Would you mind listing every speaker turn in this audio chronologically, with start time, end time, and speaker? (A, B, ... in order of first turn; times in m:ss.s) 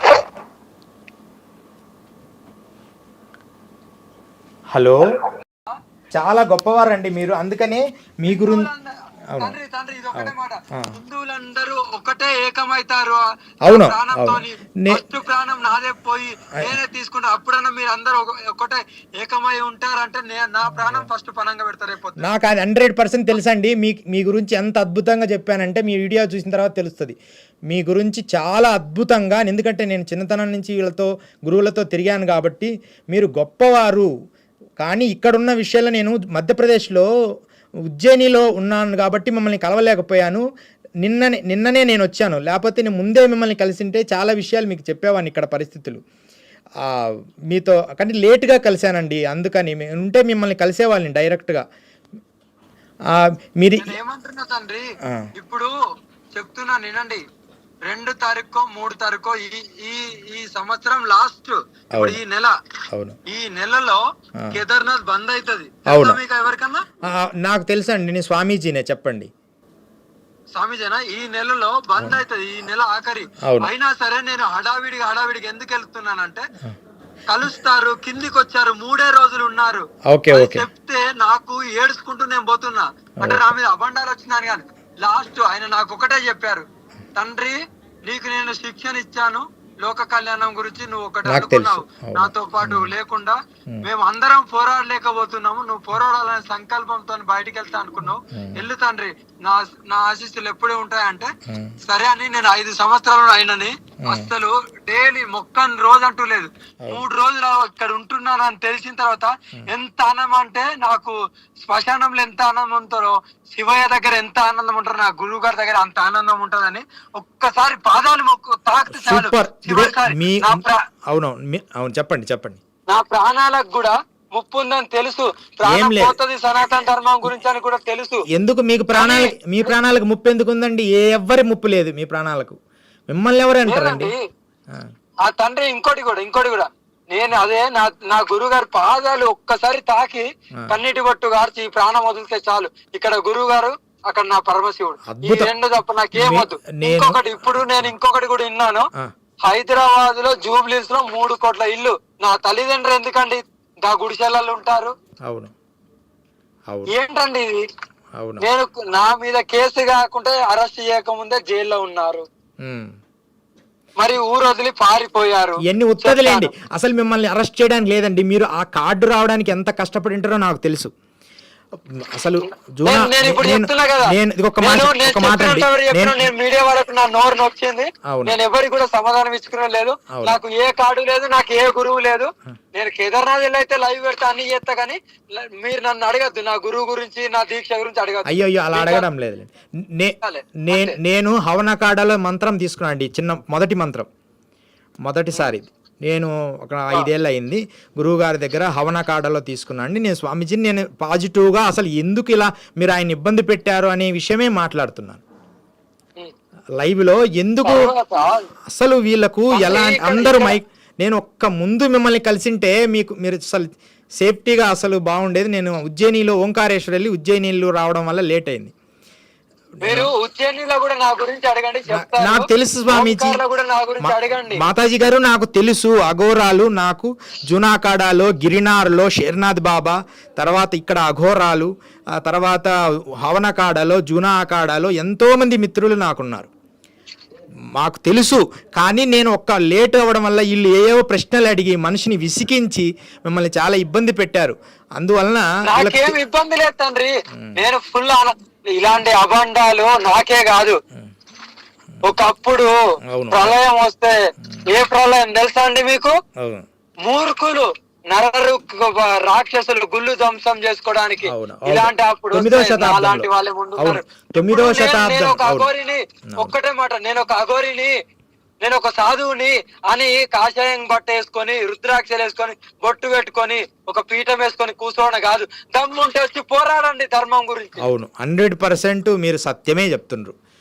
0:04.7-0:05.0 A
0:06.1-0:08.7 A
0:08.3-0:22.3 B
0:09.3-0:09.6 A
0:10.1-0:10.9 A
0:13.6-0:15.0 A
0:20.7-0:21.1 A
0:22.2-0:27.2 A
0:27.7-0:34.1 A
0:34.8-0:37.1 A
0:37.9-0:40.4 A
0:41.0-0:46.0 A
0:46.8-0:51.6 A
0:53.1-0:54.0 A
0:53.8-0:54.8 B
0:55.0-0:55.3 A
0:55.4-0:55.7 B
0:56.3-0:57.2 B
0:57.9-1:02.5 B
1:01.9-1:02.2 A
1:03.3-1:04.0 B
1:04.5-1:06.8 B
1:05.9-1:06.2 A
1:07.1-1:09.3 A
1:10.5-1:16.5 B
1:13.4-1:13.7 A
1:17.3-1:26.6 B
1:20.1-1:20.7 A
1:23.2-1:23.6 A
1:27.2-2:00.8 B
1:31.2-1:32.9 A
1:38.3-1:38.6 A
1:41.5-1:41.8 A
1:44.0-1:44.3 A
1:58.9-2:02.6 A
2:02.9-2:08.2 B
2:05.6-2:06.2 A
2:08.3-2:12.6 A
2:08.9-2:09.7 B
2:13.1-2:14.1 A
2:13.6-2:14.2 B
2:15.2-2:28.9 B
2:25.0-2:25.5 A
2:26.1-2:27.9 A
2:29.4-2:34.9 B
2:35.2-2:35.5 A
2:36.9-2:37.5 B
2:38.2-2:38.5 A
2:38.4-2:42.2 B
2:42.6-2:42.9 A
2:44.0-2:46.5 B
2:45.6-2:50.9 A
2:51.9-2:56.3 A
2:52.8-3:09.0 B
2:58.1-2:58.4 A
3:00.1-3:00.4 A
3:08.2-3:14.1 A
3:10.2-3:11.0 B
3:15.0-3:25.2 A
3:26.8-3:27.9 A
3:27.6-3:28.5 B
3:28.7-3:38.7 A
3:29.5-3:30.6 B
3:39.8-3:40.1 A
3:39.8-3:44.6 B
3:41.9-3:43.4 A
3:44.0-3:56.5 A
3:57.8-4:06.2 A
4:05.6-4:10.8 B
4:12.0-4:12.8 B
4:13.1-4:13.6 A
4:13.3-4:14.1 B
4:14.7-4:16.1 B
4:16.4-4:16.6 A
4:17.0-4:27.9 B
4:21.2-4:25.7 A
4:28.6-4:37.8 B
4:37.8-4:40.3 A